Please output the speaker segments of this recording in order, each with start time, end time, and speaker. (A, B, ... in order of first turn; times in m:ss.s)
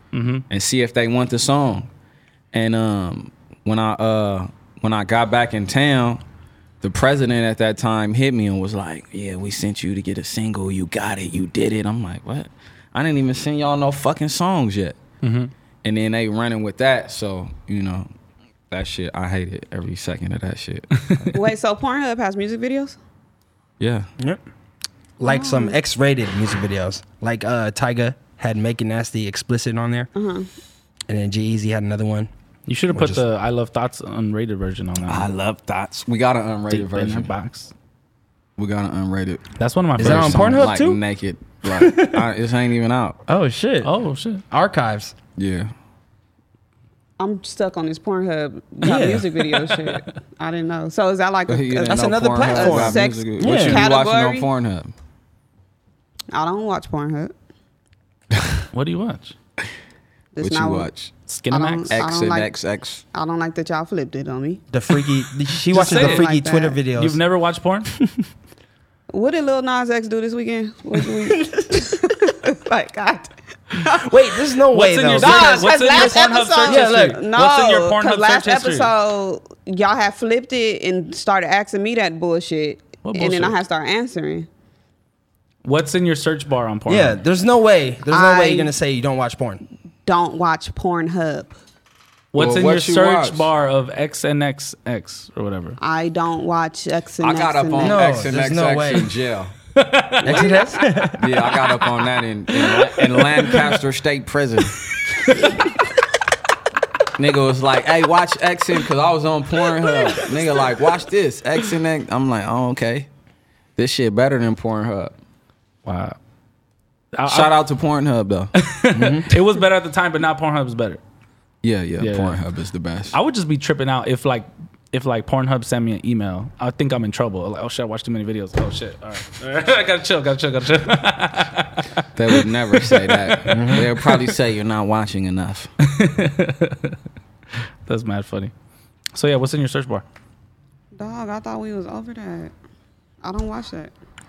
0:00.1-0:00.4 A
0:00.5-0:01.9 B
0:02.5-0:06.2 B
0:06.8-0:15.0 B
0:15.2-0:15.5 A
0:15.8-0:18.1 B
0:18.7-0:21.3 B
0:21.3-0:23.0 C
0:23.8-0:24.1 B
0:25.2-0:30.1 D
0:25.2-0:25.8 C
0:30.1-0:30.5 C
0:31.1-0:32.3 D
0:32.7-0:35.3 A
0:32.9-0:33.2 D
0:35.1-0:37.3 B
0:36.7-0:37.7 A
0:38.6-0:39.4 B
0:39.6-0:40.6 A
0:40.0-0:43.2 B
0:40.0-0:41.0 D
0:41.6-0:42.2 D
0:43.3-0:43.9 D
0:43.8-0:44.4 A
0:44.5-0:45.1 D
0:45.4-0:45.7 B
0:47.2-0:54.5 C
0:48.8-0:49.3 D
0:48.9-0:50.0 A
0:51.5-0:54.9 B
0:51.8-0:53.8 D
0:56.3-0:57.3 C
0:58.7-0:59.3 A
1:00.3-1:00.9 C
1:00.4-1:01.1 B
1:01.3-1:02.0 A
1:01.5-1:02.5 C
1:01.9-1:03.0 B
1:03.1-1:04.6 C
1:04.7-1:07.2 D
1:05.7-1:06.2 A
1:05.7-1:06.8 C
1:07.0-1:07.9 A
1:09.1-1:14.2 C
1:11.3-1:11.9 D
1:14.0-1:17.2 D
1:14.7-1:18.9 A
1:15.1-1:24.5 C
1:23.0-1:23.6 A
1:25.6-1:27.2 A
1:26.9-1:29.6 D
1:28.1-1:28.7 C
1:30.0-1:31.6 C
1:32.3-1:35.8 A
1:32.3-1:33.5 B
1:35.8-1:38.2 C
1:37.2-1:39.5 B
1:37.8-1:39.1 D
1:39.7-1:41.0 A
1:40.2-1:41.3 D
1:40.3-1:40.5 C
1:41.2-1:44.8 B
1:42.6-1:43.6 A
1:47.1-1:53.1 B
1:53.8-1:55.1 B
1:55.8-1:56.2 A
1:57.1-1:57.5 A
1:57.3-1:58.5 B
1:58.6-2:01.0 A
1:58.9-1:59.3 D
2:01.6-2:03.2 B
2:02.0-2:02.4 A
2:03.1-2:14.3 A
2:12.2-2:15.7 B
2:13.5-2:13.9 D
2:15.8-2:17.0 A
2:17.8-2:18.5 A
2:19.1-2:20.0 A
2:21.0-2:22.5 C
2:23.2-2:23.9 C